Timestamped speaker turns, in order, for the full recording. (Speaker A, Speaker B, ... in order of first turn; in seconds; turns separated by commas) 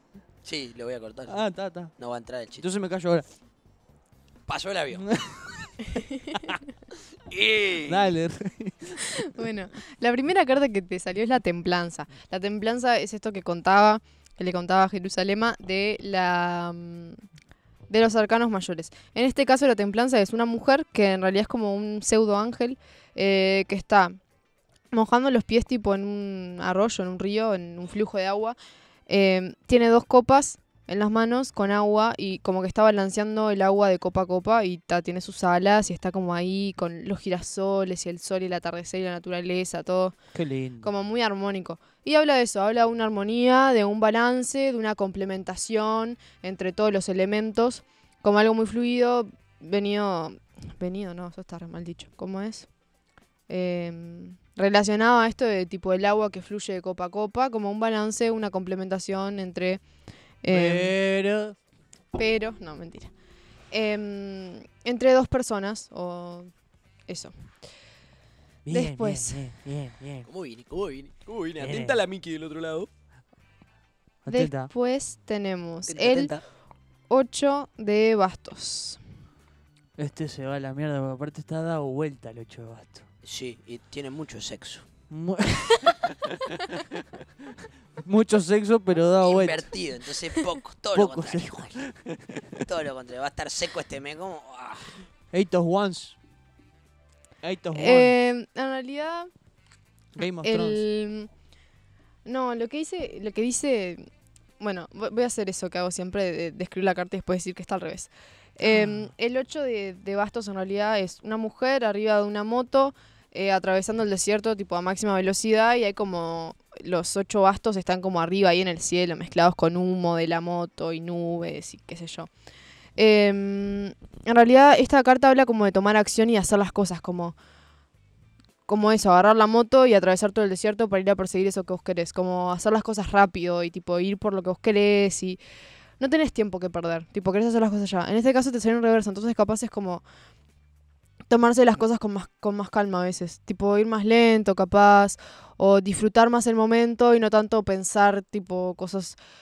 Speaker A: 0.4-1.4, Speaker B: 1.3-1.9, Speaker A: 2.0-2.7, Speaker B: 2.6-3.2, Speaker A: 4.5-5.1, Speaker B: 4.9-6.6, Speaker C: 5.9-6.4, Speaker A: 7.2-8.1, Speaker B: 7.8-9.3, Speaker C: 9.2-17.2, Speaker C: 17.9-24.2, Speaker C: 24.9-28.6, Speaker C: 29.1-40.1, Speaker B: 40.3-40.9, Speaker C: 40.8-52.7, Speaker C: 53.5-59.8, Speaker C: 60.4-60.9, Speaker B: 60.5-61.5, Speaker C: 62.1-63.1, Speaker C: 63.7-66.5, Speaker C: 67.1-67.3, Speaker B: 68.6-70.3, Speaker C: 68.7-69.4, Speaker A: 70.2-72.9, Speaker B: 71.6-72.0, Speaker B: 74.2-74.7, Speaker C: 74.3-76.3, Speaker A: 75.9-76.4, Speaker C: 77.1-79.0, Speaker B: 80.0-83.0, Speaker A: 83.2-84.8, Speaker B: 85.1-87.0, Speaker B: 88.0-89.6, Speaker A: 89.2-91.8, Speaker B: 90.9-92.4, Speaker A: 92.7-95.0, Speaker B: 95.3-96.2, Speaker B: 97.4-98.1, Speaker C: 97.7-99.3, Speaker B: 100.2-100.8, Speaker C: 100.4-101.3, Speaker C: 102.2-104.1, Speaker C: 104.6-122.3, Speaker B: 108.7-109.1, Speaker C: 123.0-127.3, Speaker C: 128.7-135.4, Speaker C: 136.0-140.0, Speaker C: 141.3-149.2